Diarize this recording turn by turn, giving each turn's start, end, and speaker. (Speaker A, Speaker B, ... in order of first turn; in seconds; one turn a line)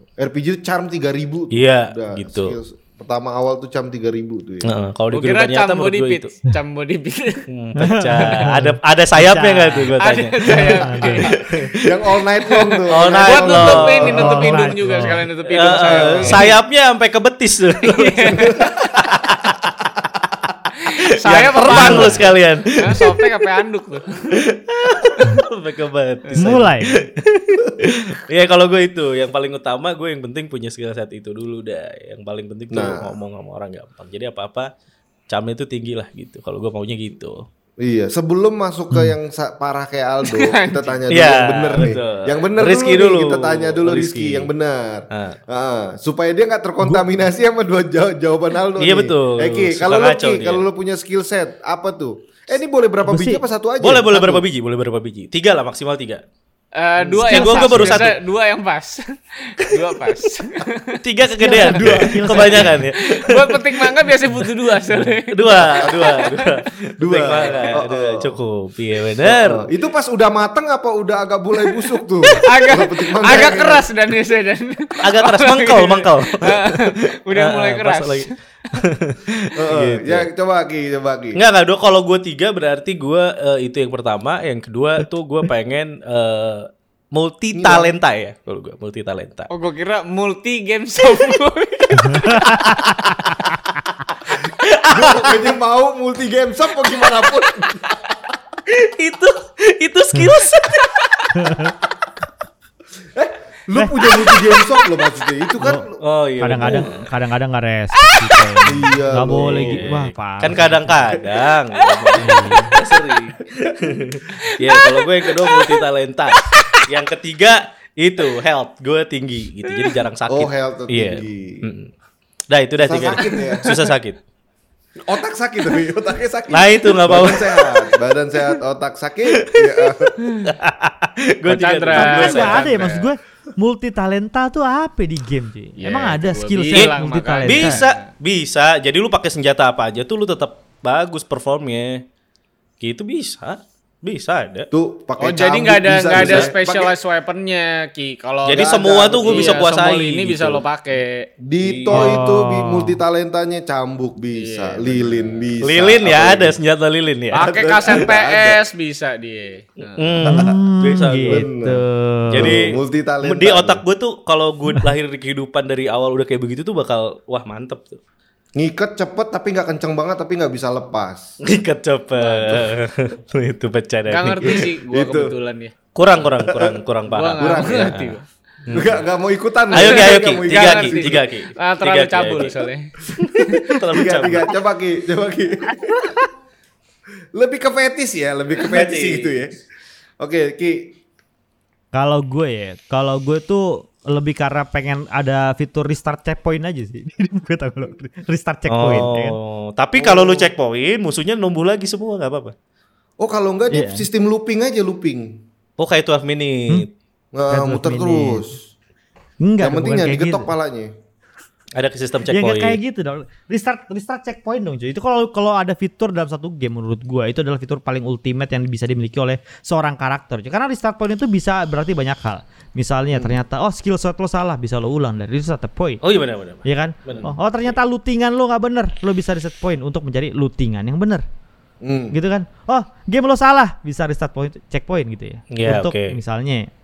Speaker A: 0.2-4.7
Speaker B: 1.5-2.6
Speaker B: 4.6-6.3
Speaker C: 5.1-7.5
Speaker B: 7.5-12.0
Speaker D: 7.8-9.9
Speaker C: 10.0-11.4
Speaker D: 10.4-11.3
Speaker A: 11.3-14.7
Speaker C: 12.5-16.6
Speaker B: 12.9-20.1
Speaker D: 14.1-15.2
Speaker A: 15.7-16.5
Speaker C: 17.8-18.7
Speaker A: 18.5-19.0
Speaker C: 20.8-25.4
Speaker B: 20.9-23.3
Speaker D: 21.7-22.2
Speaker B: 24.3-34.7
Speaker D: 26.4-26.9
Speaker A: 32.7-33.2
Speaker B: 35.3-37.5
Speaker A: 37.8-54.5
Speaker C: 40.2-41.0
Speaker B: 41.1-44.5
Speaker B: 45.1-45.4
Speaker B: 48.8-50.6
Speaker D: 53.0-53.4
Speaker B: 53.8-56.2
Speaker C: 56.8-61.0
Speaker A: 57.0-57.4
Speaker B: 57.1-58.2
Speaker B: 61.0-63.9
Speaker D: 61.2-62.8
Speaker C: 61.6-66.6
Speaker A: 61.7-62.5
Speaker B: 65.0-69.7
Speaker A: 65.7-66.4
Speaker A: 67.0-68.4
Speaker C: 67.2-67.7
Speaker A: 69.2-73.9
Speaker C: 71.7-78.3
Speaker B: 75.0-80.3
Speaker A: 79.6-81.4
Speaker B: 81.3-89.5
Speaker A: 87.5-88.0
Speaker C: 89.5-92.5
Speaker D: 91.9-93.4
Speaker B: 92.5-93.1
Speaker B: 94.6-95.5
Speaker A: 94.8-98.0
Speaker B: 96.8-97.5
Speaker B: 98.7-101.8
Speaker D: 101.3-101.7
Speaker A: 103.2-106.0
Speaker B: 104.1-104.5
Speaker D: 105.6-105.9
Speaker B: 106.0-107.1
Speaker D: 106.4-111.0
Speaker A: 108.7-109.9
Speaker B: 109.3-121.9
Speaker C: 111.8-112.7
Speaker D: 112.2-112.7
Speaker C: 114.5-115.8
Speaker C: 119.7-120.0
Speaker A: 120.3-121.7
Speaker B: 122.5-124.2
Speaker A: 122.8-123.9
Speaker C: 123.2-123.8
Speaker A: 125.0-130.2
Speaker B: 126.5-127.9
Speaker B: 129.4-132.7
Speaker C: 131.4-133.1
Speaker D: 131.9-137.8
Speaker C: 135.8-138.0
Speaker B: 136.7-142.1
Speaker B: 142.8-144.7
Speaker A: 144.7-147.0
Speaker C: 145.2-152.1
Speaker B: 146.1-146.5
Speaker B: 148.4-150.6
Speaker A: 148.5-149.7
Speaker A: 151.4-156.6
Speaker D: 151.9-153.0
Speaker C: 154.3-155.5
Speaker B: 155.6-158.0
Speaker C: 157.3-160.2
Speaker A: 157.4-158.7
Speaker B: 159.9-161.5
Speaker D: 160.2-162.6
Speaker A: 160.3-160.6
Speaker A: 161.3-163.8
Speaker B: 162.3-168.0
Speaker A: 168.6-171.4
Speaker B: 171.4-174.7
Speaker C: 174.1-175.7
Speaker A: 174.5-175.3
Speaker B: 175.9-179.0
Speaker A: 176.4-176.8
Speaker C: 177.1-178.2
Speaker A: 177.3-178.0
Speaker A: 178.7-181.2
Speaker B: 179.7-182.6
Speaker C: 179.7-182.9
Speaker A: 183.2-186.2
Speaker B: 183.2-184.6
Speaker A: 187.3-189.6
Speaker B: 188.6-189.3
Speaker A: 190.2-191.0
Speaker D: 191.9-199.4
Speaker B: 198.7-202.5
Speaker A: 200.0-200.5
Speaker A: 203.2-205.4
Speaker D: 203.7-204.1
Speaker B: 205.8-206.9
Speaker A: 207.3-208.6
Speaker D: 207.5-208.4
Speaker D: 209.4-210.5
Speaker A: 209.6-210.9
Speaker B: 211.8-212.8
Speaker D: 212.3-226.0
Speaker A: 223.1-223.4
Speaker B: 226.0-227.3
Speaker D: 226.7-231.2
Speaker A: 231.8-232.2
Speaker D: 232.1-236.7
Speaker B: 235.5-236.2